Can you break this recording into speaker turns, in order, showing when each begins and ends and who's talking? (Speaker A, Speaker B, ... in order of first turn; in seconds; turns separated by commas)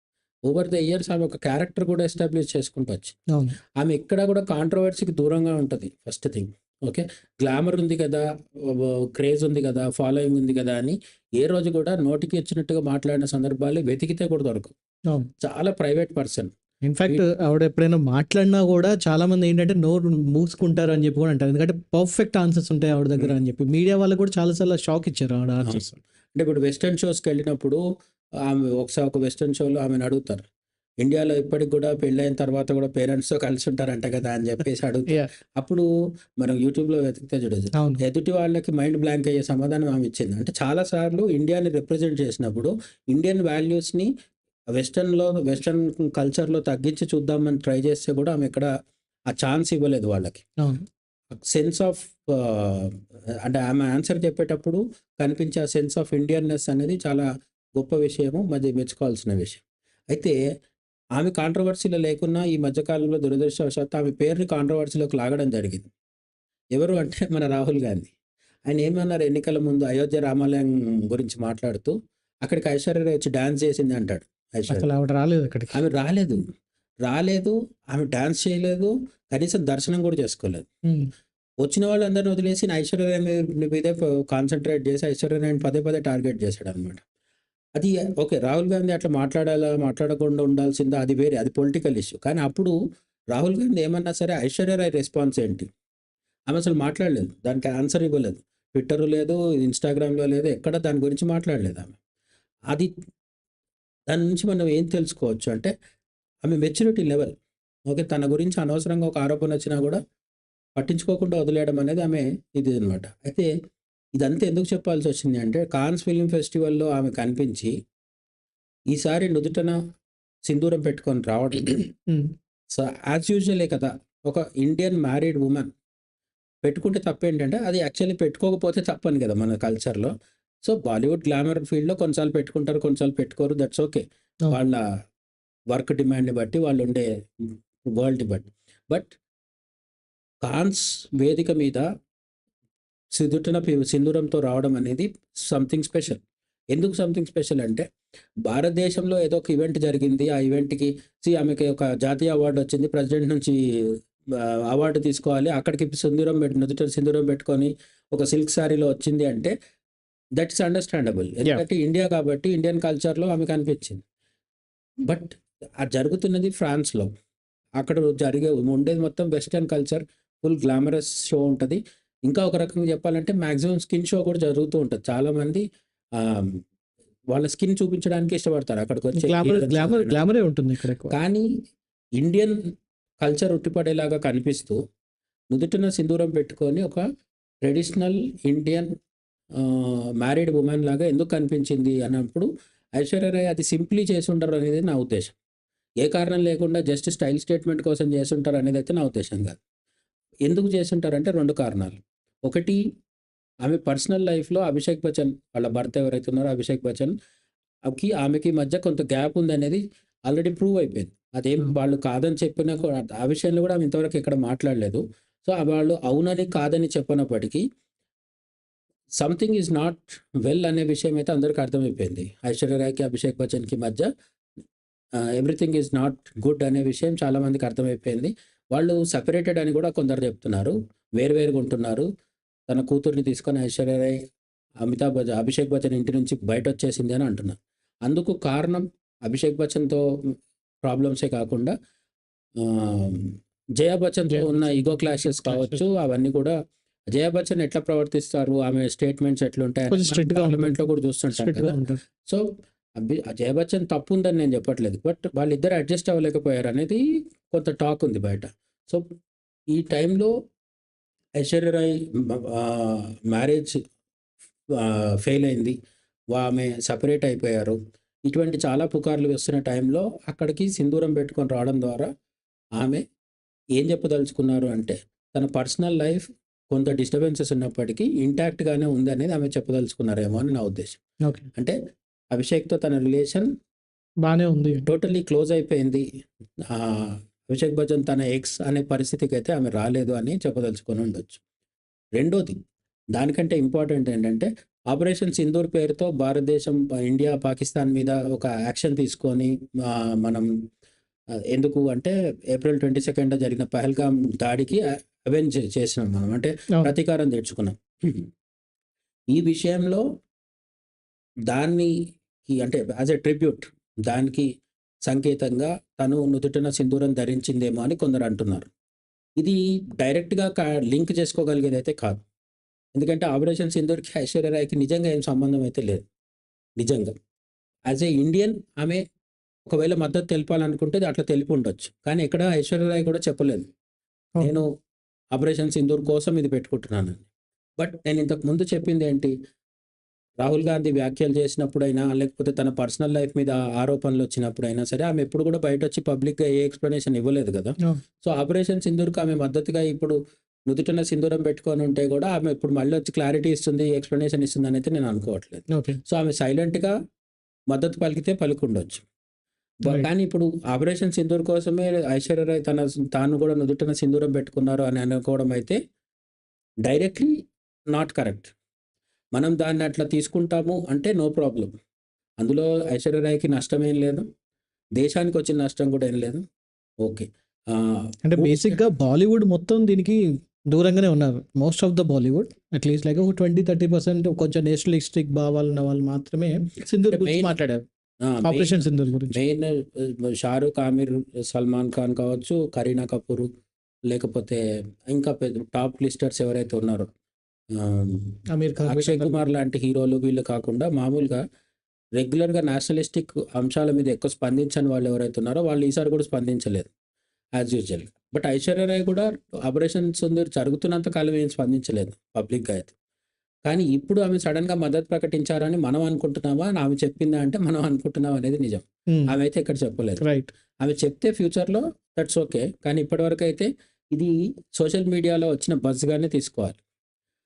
Speaker A: 0.5-3.1, Speaker A: 3.8-14.7, Speaker A: 15.4-16.5, Speaker B: 16.8-26.0, Speaker A: 26.3-27.8, Speaker A: 28.4-30.4, Speaker A: 31.0-35.9, Speaker A: 36.4-44.1, Speaker B: 37.8-38.0, Speaker A: 44.8-48.7, Speaker A: 49.3-50.5, Speaker A: 51.3-60.4, Speaker A: 61.2-65.9, Speaker A: 66.7-68.1, Speaker A: 68.7-71.9, Speaker A: 72.4-74.9, Speaker B: 74.7-75.8, Speaker A: 75.7-76.4, Speaker A: 77.0-80.7, Speaker A: 81.6-87.0, Speaker A: 87.8-92.7, Speaker A: 93.3-95.7, Speaker A: 96.5-102.0, Speaker A: 104.1-105.7, Speaker A: 106.4-107.3, Speaker A: 107.9-110.0, Speaker A: 110.8-113.5, Speaker A: 114.2-117.7, Speaker A: 118.9-119.8, Speaker A: 120.5-121.9, Speaker A: 122.7-125.7, Speaker A: 126.6-130.1, Speaker A: 130.6-134.8, Speaker A: 135.7-139.1, Speaker A: 140.4-141.8, Speaker A: 143.2-146.2, Speaker A: 146.7-147.8, Speaker A: 148.4-153.6, Speaker A: 154.4-159.5, Speaker A: 160.4-164.0, Speaker A: 165.1-167.1, Speaker A: 167.8-175.6, Speaker A: 176.2-176.6, Speaker A: 177.3-180.1, Speaker B: 179.2-181.1, Speaker A: 181.1-181.4, Speaker A: 182.2-182.6, Speaker A: 183.2-184.8, Speaker A: 185.5-187.0, Speaker A: 187.6-188.9, Speaker A: 189.6-195.3, Speaker A: 196.0-199.6, Speaker A: 200.4-202.8, Speaker A: 203.6-207.1, Speaker A: 207.9-217.6, Speaker A: 219.2-224.1, Speaker A: 225.3-232.1, Speaker A: 232.7-234.2, Speaker A: 234.8-237.6, Speaker A: 238.1-240.0, Speaker A: 240.8-241.7, Speaker A: 242.6-246.6, Speaker B: 244.3-245.8, Speaker A: 247.1-251.8, Speaker B: 249.9-252.0, Speaker A: 253.0-259.0, Speaker A: 259.7-260.3, Speaker A: 261.4-263.8, Speaker A: 264.8-265.8, Speaker A: 266.3-272.1, Speaker A: 273.8-281.0, Speaker A: 282.3-283.5, Speaker B: 284.2-284.8, Speaker A: 284.9-286.1, Speaker A: 286.7-291.4, Speaker A: 292.2-292.6, Speaker A: 293.1-300.5, Speaker A: 301.5-308.3, Speaker A: 309.3-310.0, Speaker A: 311.5-311.9, Speaker A: 312.5-314.5, Speaker A: 315.1-318.7, Speaker A: 319.4-322.2, Speaker A: 322.9-326.1, Speaker A: 326.8-327.1, Speaker A: 327.9-329.0, Speaker A: 329.7-333.7, Speaker A: 334.4-334.7, Speaker A: 335.3-337.3, Speaker A: 337.8-339.3, Speaker A: 340.4-350.1, Speaker A: 350.7-356.9, Speaker B: 355.7-356.0, Speaker A: 357.7-359.0, Speaker A: 359.8-365.8, Speaker A: 366.8-367.3, Speaker A: 367.9-368.5, Speaker A: 369.3-371.7, Speaker A: 372.4-374.2, Speaker A: 375.0-376.4, Speaker A: 377.0-378.8, Speaker B: 378.3-380.2, Speaker B: 380.7-387.8, Speaker A: 387.1-387.5, Speaker A: 388.2-393.5, Speaker B: 388.4-389.4, Speaker A: 394.1-397.1, Speaker A: 397.8-398.4, Speaker B: 398.5-399.3, Speaker A: 398.9-401.4, Speaker A: 402.2-406.9, Speaker A: 407.6-412.9, Speaker A: 413.6-420.2, Speaker B: 420.2-420.5, Speaker A: 420.8-426.8